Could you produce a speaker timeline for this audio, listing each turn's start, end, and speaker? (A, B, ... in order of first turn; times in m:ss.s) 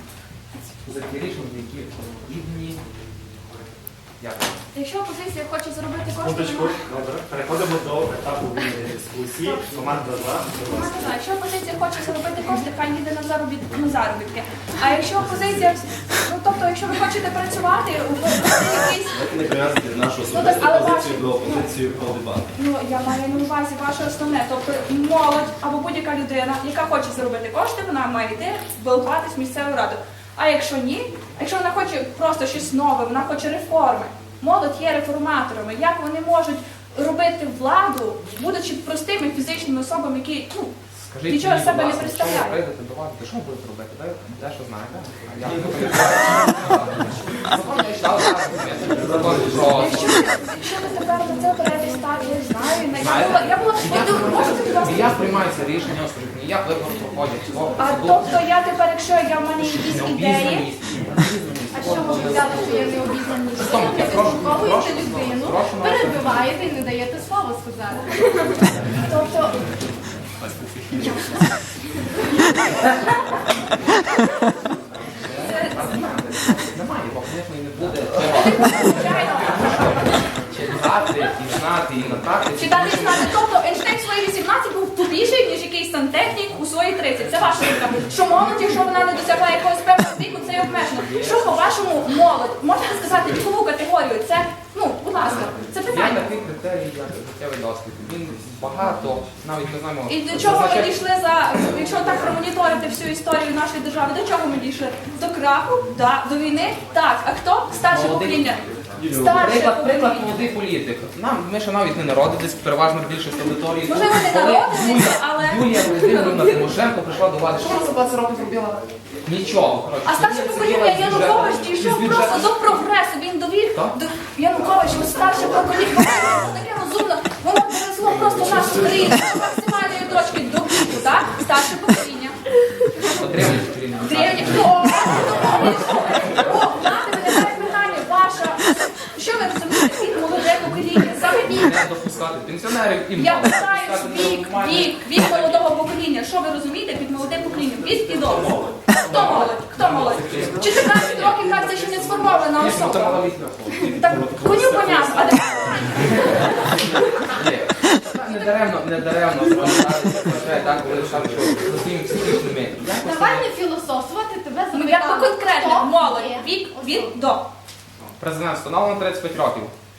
0:00.8-0:02.8 A
0:04.2-0:04.6 A
0:04.7-0:06.8 B
0:06.2-0:10.9 C
0:10.6-0:19.2 B
0:19.1-0:22.5 D
0:20.3-0:21.7 B
0:22.5-0:40.8 B
0:41.1-0:50.1 A
0:41.3-0:42.6 B
0:49.7-0:55.2 B
0:53.0-0:58.4 A
0:57.8-1:00.7 B
0:59.8-1:03.0 A
1:01.7-1:08.5 E
1:03.6-1:06.3 A
1:09.1-1:09.5 B
1:10.4-1:11.2 A
1:15.2-1:23.3 A
1:15.3-1:15.9 B
1:18.3-1:20.1 B
1:22.6-1:36.3 B
1:30.7-1:31.6 A
1:35.2-1:40.9 A
1:40.1-1:50.4 B
1:47.8-1:48.6 A
1:49.0-1:49.3 C
1:49.2-2:02.6 A
1:53.8-1:56.7 B
2:00.0-2:12.4 B
2:03.7-2:04.0 A
2:13.0-2:15.2 A
2:14.0-2:21.7 B
2:21.5-2:25.7 A
2:23.2-2:33.2 B
2:28.9-2:35.4 A
2:33.8-2:37.0 B
2:37.2-2:43.5 A
2:43.0-2:47.1 E
2:44.7-2:47.5 B
2:48.2-2:49.7 A